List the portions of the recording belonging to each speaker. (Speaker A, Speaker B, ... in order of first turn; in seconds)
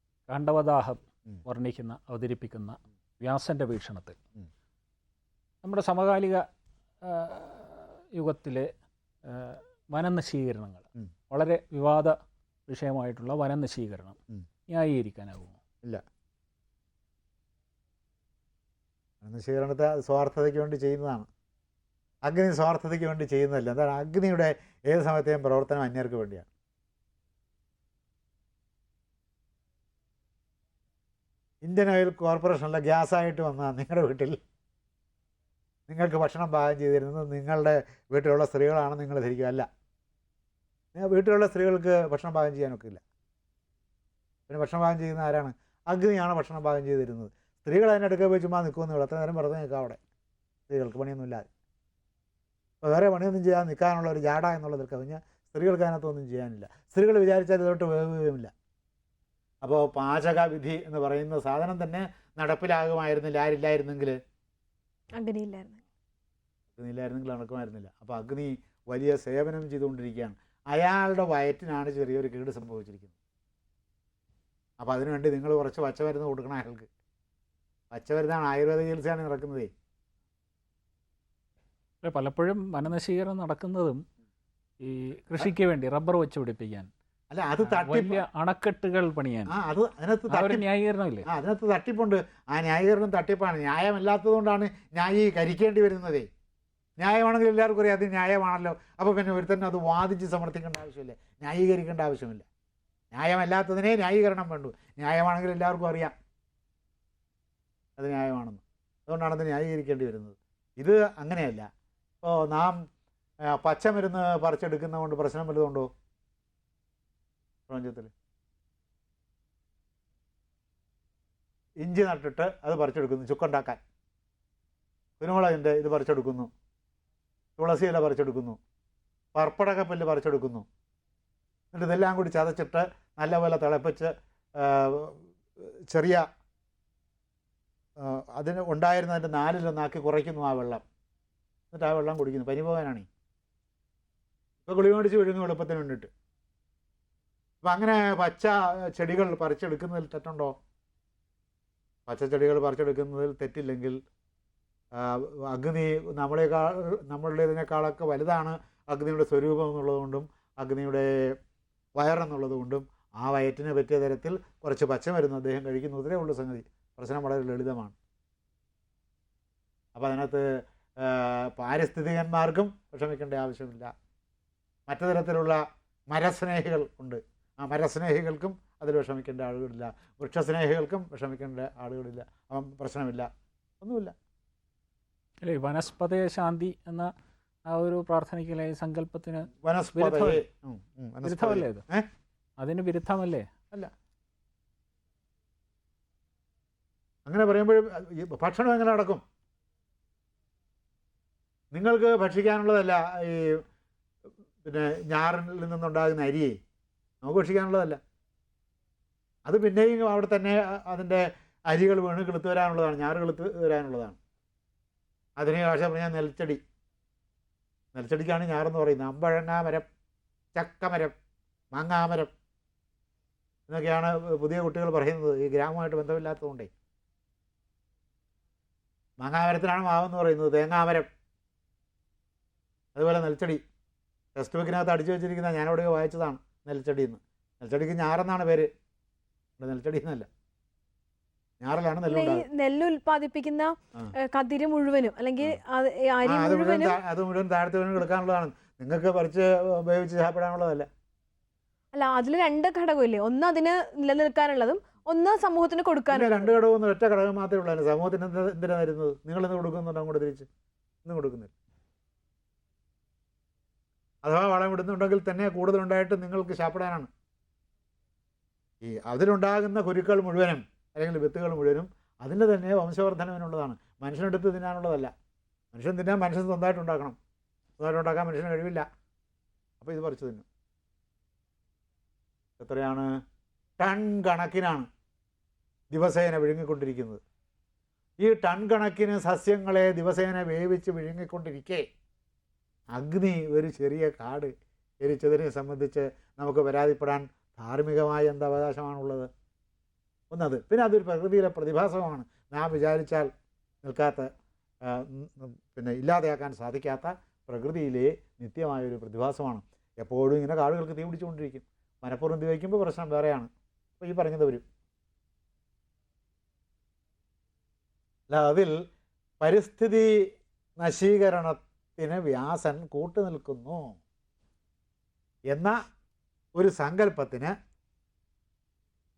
Speaker A: 0.3-4.2, 5.6-6.4, 7.0-8.7, 9.2-12.1, 12.7-14.2, 14.7-15.6, 82.0-84.0, 84.8-86.9, 87.6-89.5, 90.3-91.3, 185.4-187.1, 187.7-190.4, 191.2-191.8, 192.6-193.5
Speaker B: 19.2-21.3, 22.2-26.5, 31.6-34.4, 35.9-39.7, 40.9-43.0, 44.5-50.0, 50.7-51.5, 52.8-58.5, 59.6-64.2, 66.8-73.1, 74.8-76.9, 77.9-79.7, 87.3-88.2, 89.5-90.7, 91.2-96.3, 97.0-102.5, 103.1-106.1, 108.0-111.7, 112.2-112.8, 113.5-115.9, 117.7-118.1, 121.8-123.8, 125.2-126.5, 127.6-128.6, 129.3-130.7, 131.7-136.2, 138.0-140.8, 141.7-143.1, 144.6-146.1, 147.6-150.5, 152.1-154.0, 154.9-161.3, 162.0-167.9, 169.9-170.5, 171.0-173.9, 174.9-183.3, 183.8-184.1, 189.6-192.1, 197.2-199.2, 201.7-203.6, 204.6-206.6, 207.2-208.0, 209.4-214.2, 215.4-216.6, 217.9-219.8, 220.5-221.2, 221.7-222.3, 223.7-226.7, 229.2-231.1, 232.9-233.6, 234.3-238.7, 239.6-240.3, 241.6-242.4, 246.2-250.9, 256.1-260.5, 261.0-261.5, 264.2-267.1, 268.8-275.1, 275.7-277.2, 277.8-278.8, 279.8-280.4, 282.6-283.1, 283.8-284.9, 285.9-287.2, 288.2-291.8, 292.9-299.3, 300.3-303.3, 303.8-304.3, 304.8-314.6, 318.3-318.8, 319.4-320.2, 320.8-324.0, 325.5-325.7, 326.6-327.5
Speaker C: 65.2-65.8, 242.1-247.0, 251.9-256.5